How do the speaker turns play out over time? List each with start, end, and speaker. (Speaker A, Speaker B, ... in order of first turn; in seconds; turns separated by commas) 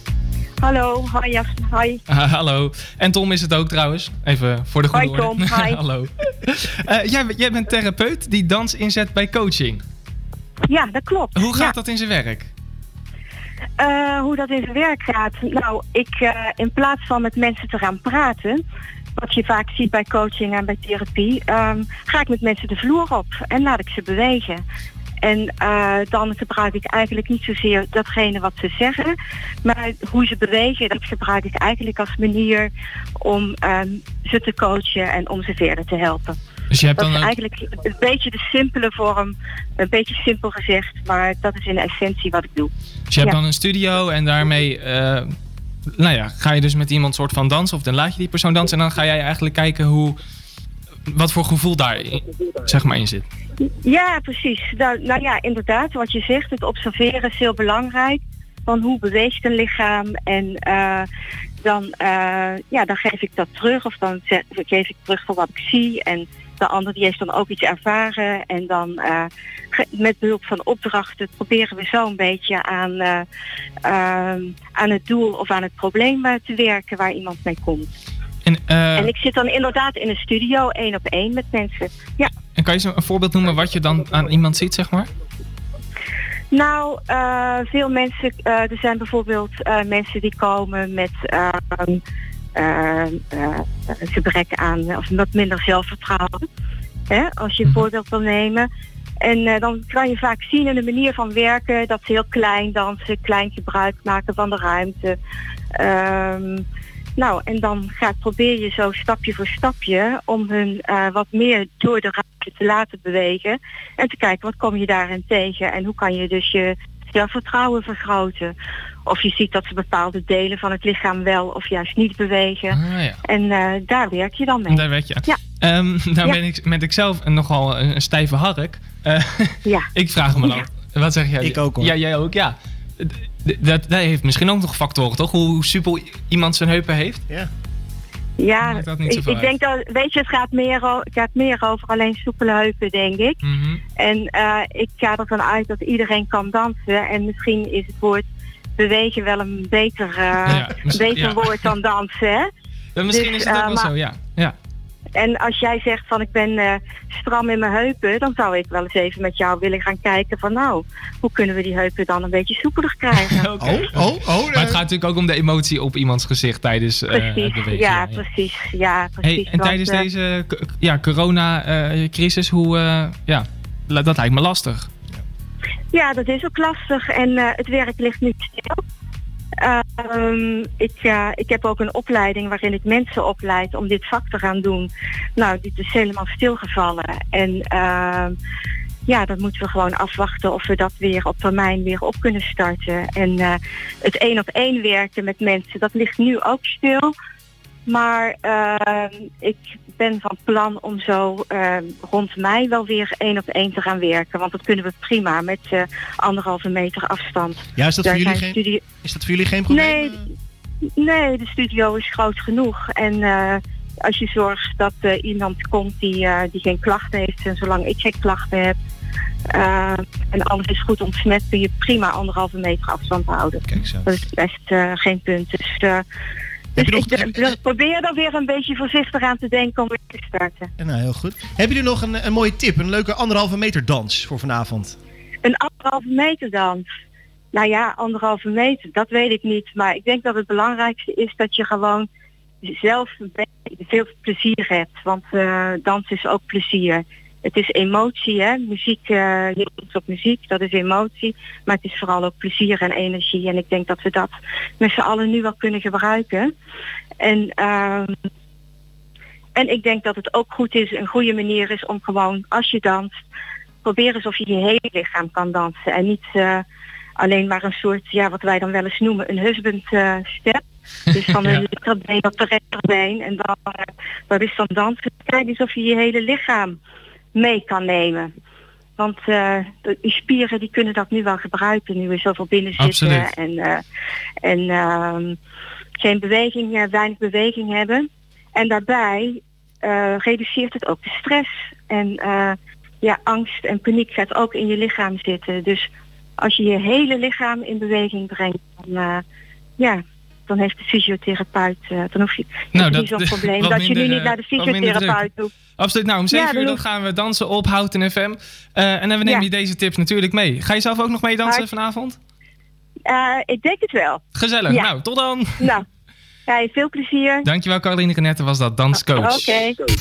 Speaker A: 0.6-2.0, Speaker B: 2.1-9.8, Speaker A: 4.9-5.8, Speaker A: 10.7-11.8, Speaker B: 11.4-12.5, Speaker A: 13.8-18.6, Speaker A: 19.2-24.6, Speaker A: 25.2-29.1, Speaker A: 29.6-36.4, Speaker B: 36.7-37.3, Speaker A: 37.0-43.4, Speaker B: 43.1-45.3, Speaker B: 46.0-50.2, Speaker B: 51.1-53.2, Speaker A: 53.8-61.1, Speaker A: 61.6-73.2, Speaker A: 73.8-77.9, Speaker B: 78.5-79.1, Speaker A: 79.0-82.3, Speaker B: 82.6-85.1, Speaker A: 86.5-92.0, Speaker A: 92.5-96.4, Speaker A: 97.1-98.7, Speaker A: 99.2-105.2, Speaker A: 105.7-106.6, Speaker A: 107.2-118.5, Speaker A: 119.0-125.4, Speaker B: 122.7-123.2, Speaker B: 124.7-137.2, Speaker C: 131.4-131.9, Speaker A: 138.4-143.4, Speaker B: 138.6-139.5, Speaker B: 143.4-143.8, Speaker A: 144.0-152.5, Speaker B: 150.4-151.7, Speaker B: 152.9-154.6, Speaker A: 153.1-153.9, Speaker A: 155.2-163.5, Speaker B: 163.2-168.2, Speaker C: 163.6-164.8, Speaker A: 167.1-170.1, Speaker B: 169.2-174.9, Speaker A: 175.9-178.8, Speaker A: 179.6-188.3, Speaker A: 189.1-197.1, Speaker A: 197.9-208.8, Speaker C: 207.8-210.2, Speaker A: 209.7-210.3, Speaker A: 211.0-218.8, Speaker A: 219.5-226.0, Speaker C: 223.7-224.1, Speaker C: 226.8-227.5, Speaker A: 226.8-230.7, Speaker C: 230.8-235.0, Speaker A: 235.4-236.8, Speaker A: 237.5-242.1, Speaker A: 242.6-256.5, Speaker A: 257.2-258.1, Speaker A: 259.6-263.2, Speaker A: 263.8-266.6, Speaker A: 267.2-276.8, Speaker A: 277.3-278.3, Speaker A: 279.0-283.8, Speaker B: 282.8-283.3, Speaker A: 284.4-285.4, Speaker A: 286.0-299.2, Speaker A: 299.8-305.5, Speaker B: 302.7-305.3, Speaker B: 305.8-312.2, Speaker A: 306.3-306.8, Speaker A: 313.1-314.9, Speaker B: 314.4-315.7, Speaker A: 315.6-315.9, Speaker A: 316.5-317.5, Speaker B: 317.4-319.4, Speaker A: 319.2-319.8